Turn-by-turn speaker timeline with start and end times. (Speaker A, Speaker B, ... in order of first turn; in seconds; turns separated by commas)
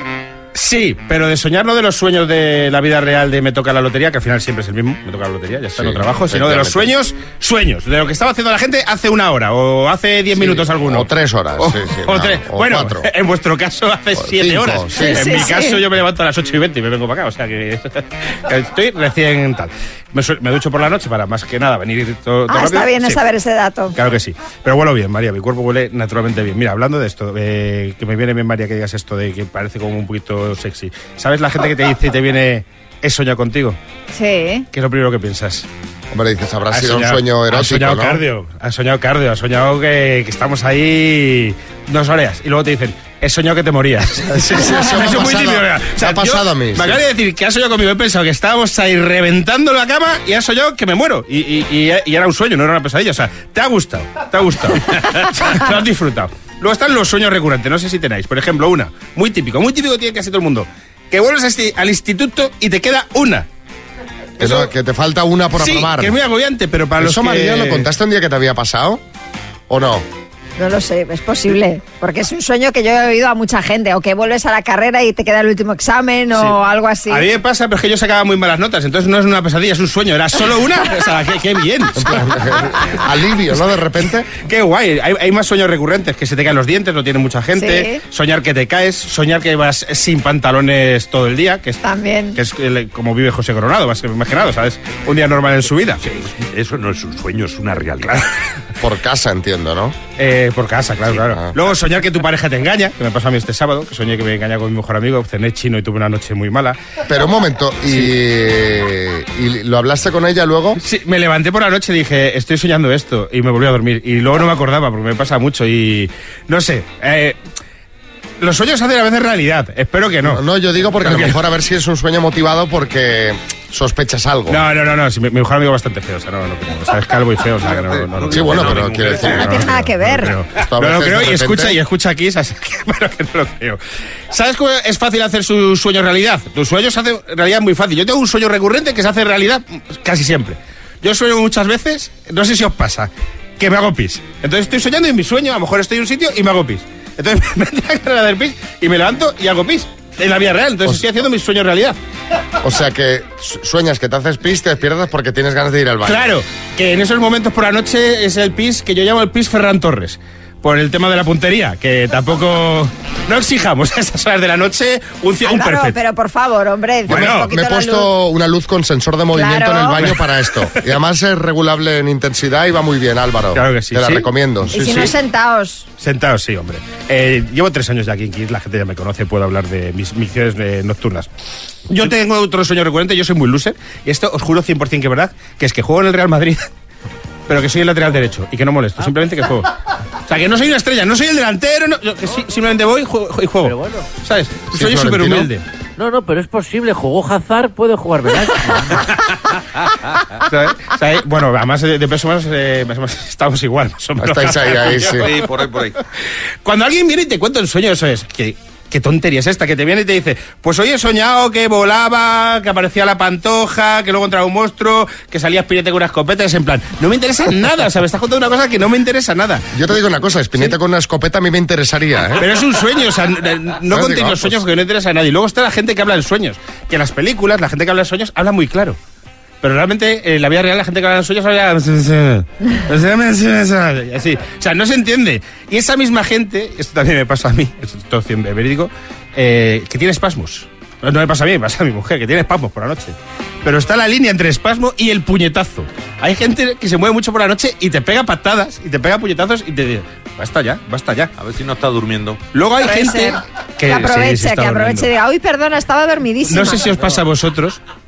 Speaker A: 0.6-23.2, Speaker B: 5.8-6.9, Speaker B: 10.3-13.1, Speaker B: 14.2-15.3, Speaker C: 15.0-15.8, Speaker C: 22.5-24.0, Speaker A: 23.9-33.8, Speaker C: 34.1-34.7, Speaker A: 34.7-35.7, Speaker B: 36.1-38.2, Speaker A: 36.7-63.5, Speaker B: 44.3-47.0, Speaker A: 64.4-64.7, Speaker B: 64.4-66.1, Speaker A: 65.6-67.9, Speaker B: 67.0-69.0, Speaker B: 69.7-70.0, Speaker C: 70.6-77.3, Speaker A: 77.1-82.3, Speaker B: 82.0-84.3, Speaker A: 84.4-91.8, Speaker C: 87.5-88.0, Speaker C: 91.8-92.4, Speaker A: 92.3-96.0, Speaker D: 96.1-98.2, Speaker B: 98.8-100.0, Speaker A: 100.2-106.8, Speaker B: 101.2-101.6, Speaker B: 107.1-110.8, Speaker A: 110.8-117.4, Speaker A: 118.4-120.4, Speaker B: 120.2-124.6, Speaker A: 121.0-121.4, Speaker A: 124.5-133.8, Speaker D: 127.6-129.4, Speaker B: 128.3-129.6, Speaker C: 129.3-130.3, Speaker B: 130.6-131.8, Speaker A: 134.3-152.0, Speaker B: 152.6-156.3, Speaker A: 156.1-166.0, Speaker C: 165.4-168.1, Speaker A: 167.1-167.5, Speaker B: 167.1-175.1, Speaker C: 169.3-170.0, Speaker A: 170.0-170.9, Speaker A: 173.5-175.2, Speaker C: 174.7-175.9, Speaker A: 176.0-181.3, Speaker A: 181.9-186.7, Speaker A: 187.5-189.7, Speaker A: 190.3-195.7, Speaker E: 193.7-194.1, Speaker B: 194.7-195.5, Speaker E: 196.0-199.0, Speaker A: 199.1-199.4, Speaker A: 200.4-205.5, Speaker B: 204.2-205.3, Speaker D: 205.1-206.0, Speaker A: 206.6-219.7, Speaker B: 219.7-222.5, Speaker A: 222.4-229.0, Speaker B: 223.9-224.6, Speaker A: 229.6-251.3, Speaker D: 251.4-252.4, Speaker A: 252.5-255.1, Speaker C: 252.8-256.9, Speaker A: 256.5-257.8